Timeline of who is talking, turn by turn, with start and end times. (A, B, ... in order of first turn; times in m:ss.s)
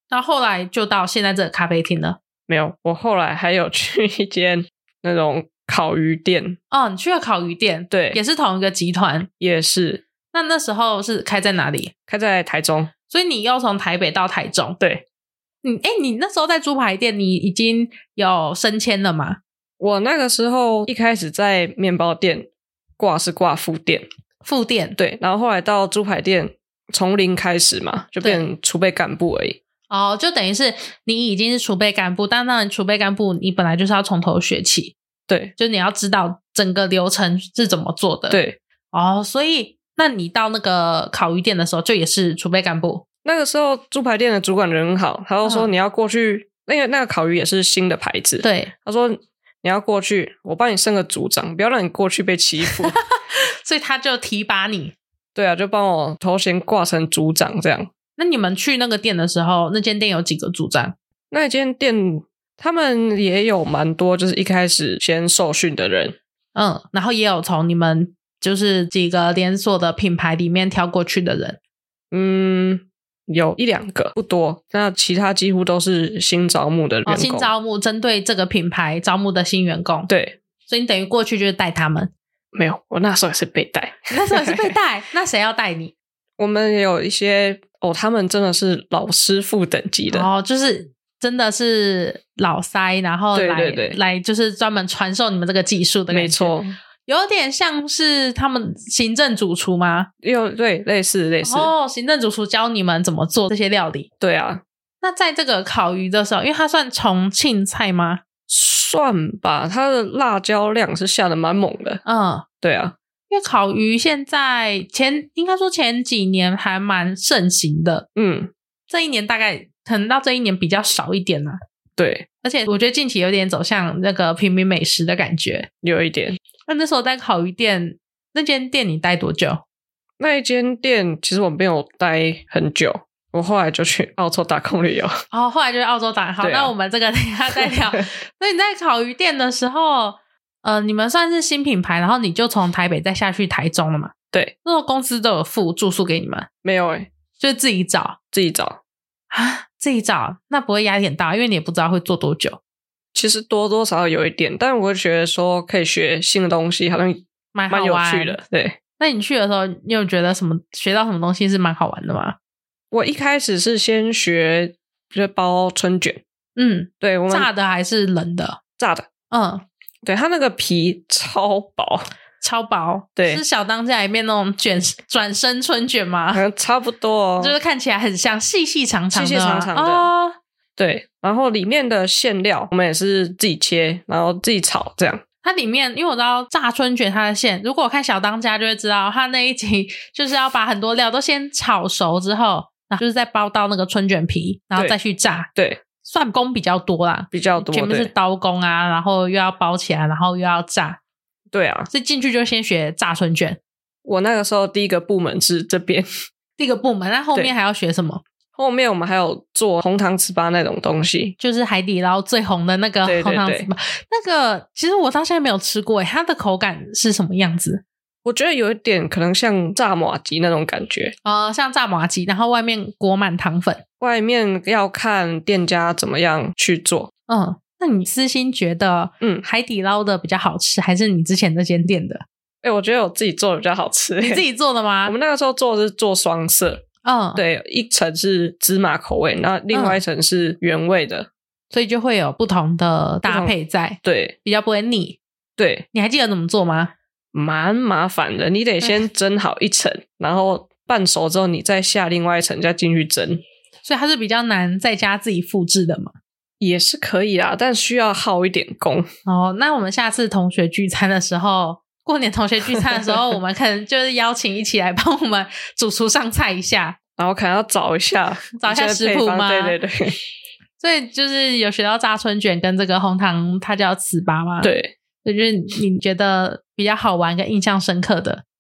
0:00.1-0:02.2 A
0:02.5-0:06.6 B
0:06.7-0:09.3 A
0:07.9-0:08.2 B
0:09.4-0:10.0 B
0:10.3-0:11.9 A
0:12.1-0:12.9 B
0:13.1-0:14.8 A
0:15.6-0:19.4 A
0:19.8-0:22.5 B
0:23.0-0:24.0 B
0:24.4-0:25.0 A
0:25.0-0:29.6 B
0:29.9-0:35.0 A
0:35.3-0:35.5 B
0:35.6-0:38.4 A
0:38.3-0:38.6 B
0:38.9-0:43.0 A
0:43.2-0:53.0 B
0:45.4-0:45.7 A
0:48.4-0:48.7 A
0:52.6-0:54.9 A
0:55.4-0:57.9 B
0:58.2-1:01.0 A
1:01.3-1:06.2 B
1:06.5-1:11.6 A
1:12.1-1:17.5 B
1:17.0-1:20.1 A
1:20.1-1:20.4 B
1:20.7-1:22.1 A
1:22.5-1:24.7 B
1:24.1-1:25.9 A
1:26.4-1:30.3 B
1:30.1-1:36.5 A
1:33.3-1:34.0 B
1:36.1-1:36.8 B
1:37.0-1:40.1 A
1:40.2-1:41.7 B
1:41.4-1:44.1 A
1:44.2-1:44.6 B
1:45.0-1:48.2 A
1:48.5-1:52.0 B
1:52.0-1:52.4 A
1:52.6-1:52.9 B
1:53.3-1:58.0 A
1:58.2-1:58.5 B
1:58.9-2:01.6 A
2:02.0-2:02.2 B
2:02.4-2:05.7 A
2:05.8-2:06.4 B
2:06.7-2:09.6 A
2:10.2-2:15.1 B
2:15.3-2:24.1 A
2:16.4-2:16.7 B
2:17.5-2:18.0 B
2:24.6-2:26.5 A
2:26.6-2:27.1 B
2:27.4-2:28.2 A
2:28.3-2:28.8 B
2:29.3-2:32.6 A
2:33.1-2:38.8 B
2:37.5-2:38.4 A
2:39.0-2:42.4 A
2:42.9-2:46.2 B
2:46.6-2:48.6 A
2:47.0-2:47.5 B
2:48.8-2:49.1 B
2:49.3-2:49.6 A
2:50.0-2:52.1 B
2:52.4-2:56.4 A
2:53.2-2:53.4 B
2:56.3-2:57.6 B
2:57.4-3:00.4 A
2:59.1-3:00.1 B
3:00.8-3:05.2 B
3:05.4-3:15.5 A
3:15.5-3:15.8 B
3:16.0-3:21.0 A
3:17.3-3:18.1 B
3:21.5-3:21.9 B
3:21.9-3:23.6 A
3:24.0-3:26.1 B
3:26.6-3:28.2 A
3:28.6-3:31.4 B
3:31.4-3:37.8 A
3:33.0-3:33.7 B
3:38.2-3:41.1 B
3:41.2-3:43.8 A
3:44.0-3:47.1 B
3:47.3-3:52.2 A
3:52.6-3:54.4 B
3:54.2-3:55.1 A
3:55.0-3:56.8 B
3:57.0-3:57.4 A
3:57.4-4:01.3 B
3:59.7-4:00.0 A
4:01.7-4:05.2 A
4:03.2-4:04.4 B
4:05.6-4:05.9 B
4:05.9-4:06.9 A
4:07.3-4:13.4 B
4:13.8-4:16.1 A
4:16.6-4:19.1 B
4:19.2-4:27.0 A
4:27.2-4:30.2 B
4:28.6-4:29.8 A
4:30.8-4:34.7 A
4:34.6-4:34.9 B
4:35.2-4:38.4 A